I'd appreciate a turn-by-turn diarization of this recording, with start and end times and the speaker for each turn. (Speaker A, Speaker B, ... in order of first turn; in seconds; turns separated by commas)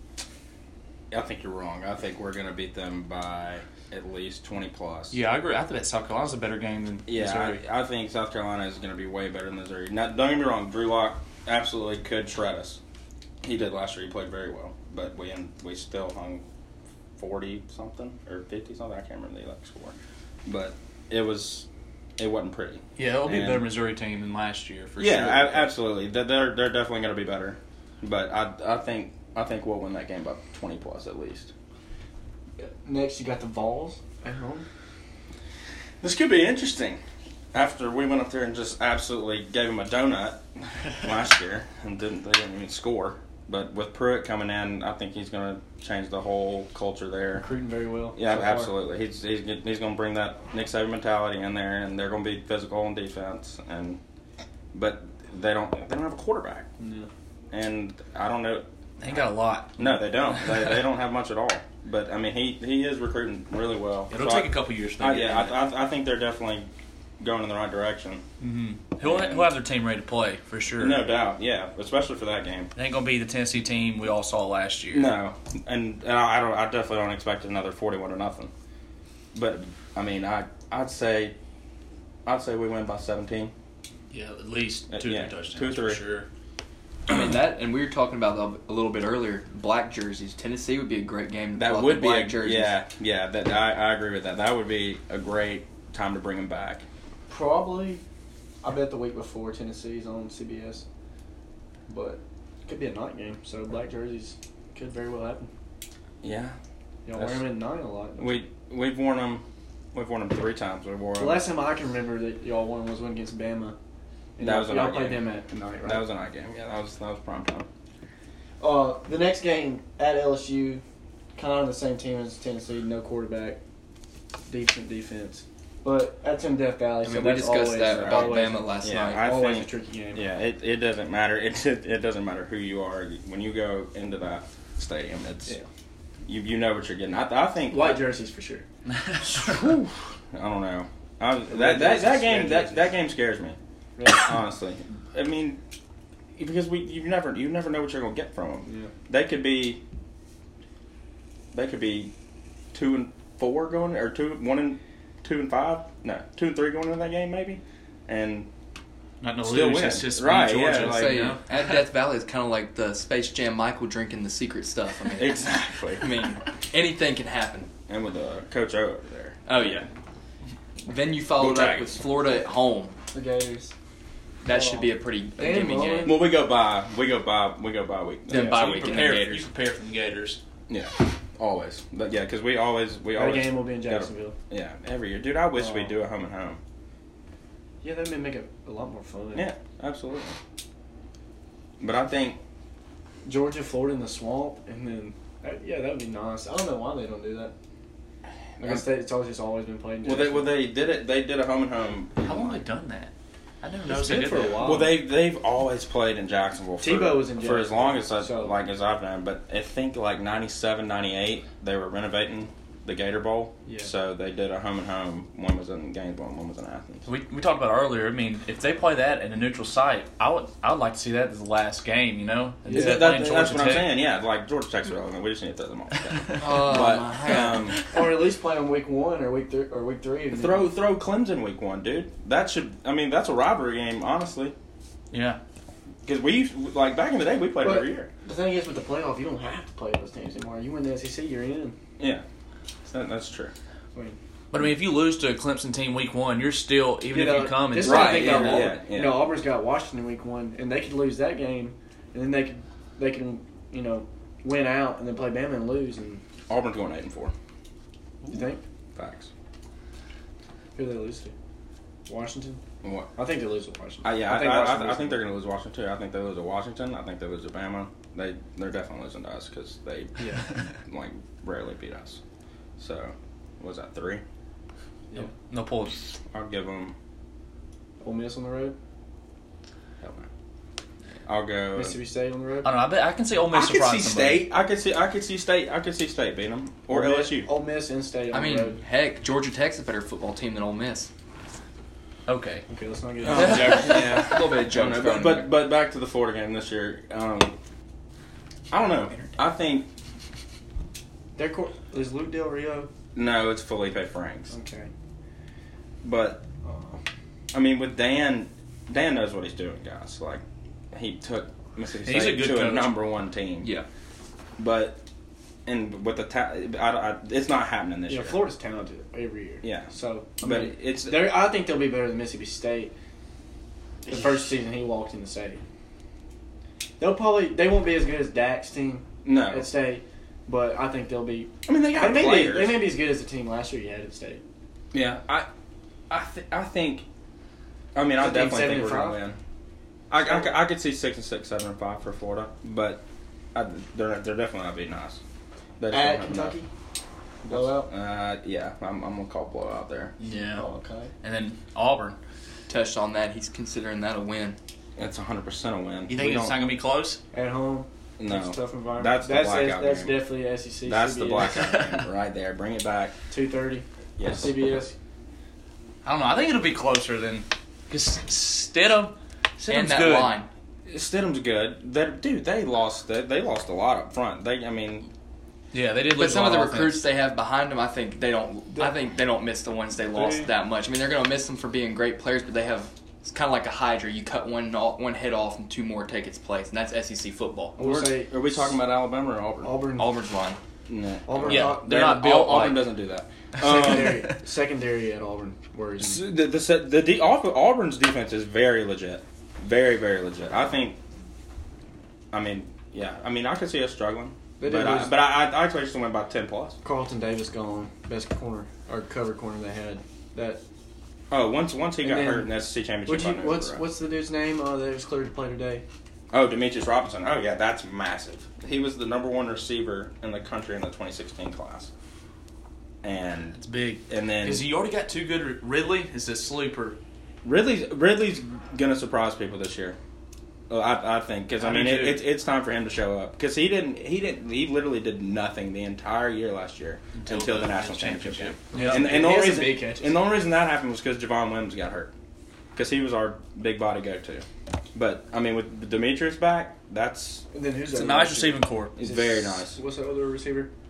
Speaker A: 1.1-5.2, Speaker B: 5.1-7.6, Speaker A: 7.0-12.8, Speaker A: 13.4-16.4, Speaker A: 17.2-21.6, Speaker A: 22.2-23.7, Speaker B: 23.0-25.7, Speaker A: 25.0-31.5, Speaker C: 32.6-34.6, Speaker A: 36.0-37.0, Speaker A: 37.5-40.4, Speaker A: 41.0-47.4, Speaker C: 47.4-48.7, Speaker A: 48.1-54.0, Speaker A: 54.7-56.7, Speaker C: 56.8-57.1, Speaker A: 57.5-58.6, Speaker B: 59.0-60.8, Speaker A: 59.8-66.7, Speaker B: 64.1-65.6, Speaker A: 67.2-68.2, Speaker B: 68.4-71.0, Speaker A: 69.0-69.5, Speaker A: 70.8-72.7, Speaker B: 72.8-75.1, Speaker A: 74.9-78.5, Speaker A: 79.3-81.3, Speaker A: 82.2-83.5, Speaker B: 84.1-86.3, Speaker A: 84.9-86.0, Speaker D: 87.1-92.8, Speaker A: 91.6-96.8, Speaker C: 97.3-98.0, Speaker C: 98.6-100.8, Speaker C: 101.9-105.5, Speaker A: 106.2-106.5, Speaker C: 107.0-108.4, Speaker A: 107.2-107.5, Speaker A: 108.2-111.4, Speaker C: 111.2-113.8, Speaker C: 114.3-116.0, Speaker A: 114.4-117.7, Speaker C: 118.6-120.8, Speaker C: 121.3-123.6, Speaker C: 124.5-130.2, Speaker D: 127.0-129.2, Speaker A: 127.9-135.6, Speaker A: 136.2-138.0, Speaker C: 137.7-138.6, Speaker B: 138.9-139.6, Speaker A: 139.2-145.6, Speaker C: 141.5-142.9, Speaker C: 144.0-144.3, Speaker A: 146.3-149.8, Speaker C: 148.7-148.9, Speaker A: 151.5-152.1, Speaker A: 152.7-158.5, Speaker B: 159.2-161.8, Speaker A: 159.4-161.1, Speaker D: 160.8-165.4, Speaker A: 165.2-166.1, Speaker D: 166.0-167.7, Speaker A: 167.9-169.4, Speaker D: 169.5-169.9, Speaker D: 170.8-172.9, Speaker A: 171.4-172.0, Speaker C: 173.1-173.7, Speaker D: 174.4-176.2, Speaker C: 174.4-176.3, Speaker A: 176.0-179.2, Speaker D: 178.3-179.5, Speaker B: 178.3-180.4, Speaker A: 180.7-186.6, Speaker C: 183.2-184.3, Speaker C: 185.6-185.9, Speaker C: 187.8-189.4, Speaker A: 189.3-190.3, Speaker A: 191.8-192.4, Speaker C: 193.2-197.5, Speaker A: 198.6-198.8, Speaker C: 198.6-200.5, Speaker A: 200.0-202.6, Speaker B: 202.2-204.8, Speaker C: 203.9-204.9, Speaker A: 204.6-217.1, Speaker C: 206.8-208.5, Speaker C: 213.7-213.9, Speaker B: 217.0-223.9, Speaker C: 222.7-223.2, Speaker A: 222.7-227.8, Speaker B: 225.9-226.6, Speaker D: 226.4-227.7, Speaker B: 227.4-227.8, Speaker C: 227.9-230.7, Speaker A: 230.3-234.5, Speaker B: 235.1-235.4, Speaker A: 236.0-238.1, Speaker C: 237.6-241.8, Speaker A: 242.0-242.2, Speaker A: 242.8-243.5, Speaker B: 244.5-248.7, Speaker C: 247.1-256.2, Speaker A: 247.8-249.3, Speaker A: 256.5-257.3, Speaker C: 258.2-258.6, Speaker A: 258.9-259.3, Speaker C: 260.7-261.3, Speaker C: 262.1-262.6, Speaker A: 262.8-263.1, Speaker C: 263.1-265.2, Speaker A: 264.0-272.2, Speaker C: 270.2-270.4, Speaker A: 272.8-274.2, Speaker B: 275.3-276.1, Speaker A: 276.3-276.9, Speaker C: 278.0-278.8, Speaker A: 280.0-280.3, Speaker A: 281.3-282.0, Speaker C: 281.7-282.7, Speaker B: 282.6-284.4, Speaker A: 283.5-287.5, Speaker C: 286.9-288.8, Speaker D: 288.3-291.1, Speaker B: 292.3-292.6, Speaker C: 292.7-293.8, Speaker B: 293.2-294.2, Speaker A: 293.2-297.5, Speaker D: 293.4-295.5, Speaker A: 298.7-299.9, Speaker C: 301.3-302.9, Speaker A: 303.1-304.5, Speaker C: 304.5-304.9, Speaker A: 306.0-306.4, Speaker C: 306.6-307.0, Speaker A: 307.5-313.7, Speaker B: 312.0-312.9, Speaker A: 314.6-315.0, Speaker A: 315.6-318.4, Speaker C: 318.1-322.9, Speaker A: 319.6-321.3, Speaker C: 324.0-325.6, Speaker C: 327.0-334.4, Speaker A: 329.2-329.7, Speaker A: 331.6-332.8, Speaker A: 334.9-335.5, Speaker A: 336.1-337.1, Speaker A: 337.9-339.4, Speaker C: 338.2-339.2, Speaker A: 340.1-345.2, Speaker C: 340.2-340.6, Speaker A: 345.8-346.6, Speaker C: 345.9-346.7, Speaker C: 347.4-347.9, Speaker A: 347.5-350.1, Speaker B: 350.2-350.6, Speaker C: 350.4-351.1, Speaker B: 351.2-352.2, Speaker D: 352.7-354.6, Speaker A: 355.0-356.6, Speaker B: 356.1-357.2, Speaker C: 357.3-361.6, Speaker A: 358.2-360.2, Speaker A: 360.8-363.1, Speaker B: 361.6-362.0, Speaker C: 363.3-364.9, Speaker A: 364.2-364.5, Speaker B: 366.0-370.4, Speaker D: 369.7-370.5, Speaker A: 370.9-375.1, Speaker B: 375.7-377.0, Speaker D: 376.1-388.1, Speaker C: 380.1-380.5, Speaker C: 387.8-388.8, Speaker A: 388.0-389.7, Speaker C: 389.6-390.2, Speaker D: 390.0-390.6, Speaker A: 390.9-394.2, Speaker C: 391.2-392.1, Speaker B: 391.4-392.9, Speaker C: 393.6-396.2, Speaker B: 393.7-394.4, Speaker A: 396.0-401.0, Speaker A: 402.3-406.8, Speaker C: 404.6-405.1, Speaker C: 406.8-410.6, Speaker A: 411.3-413.8, Speaker C: 412.0-412.5, Speaker C: 413.1-415.8, Speaker A: 416.3-421.9, Speaker A: 423.0-424.7, Speaker B: 423.6-427.0, Speaker A: 427.4-430.0, Speaker A: 430.7-442.1, Speaker B: 431.6-432.2, Speaker B: 437.1-439.2, Speaker C: 438.7-440.2, Speaker A: 442.7-447.4, Speaker C: 447.5-450.7, Speaker B: 447.9-448.9, Speaker A: 448.9-449.8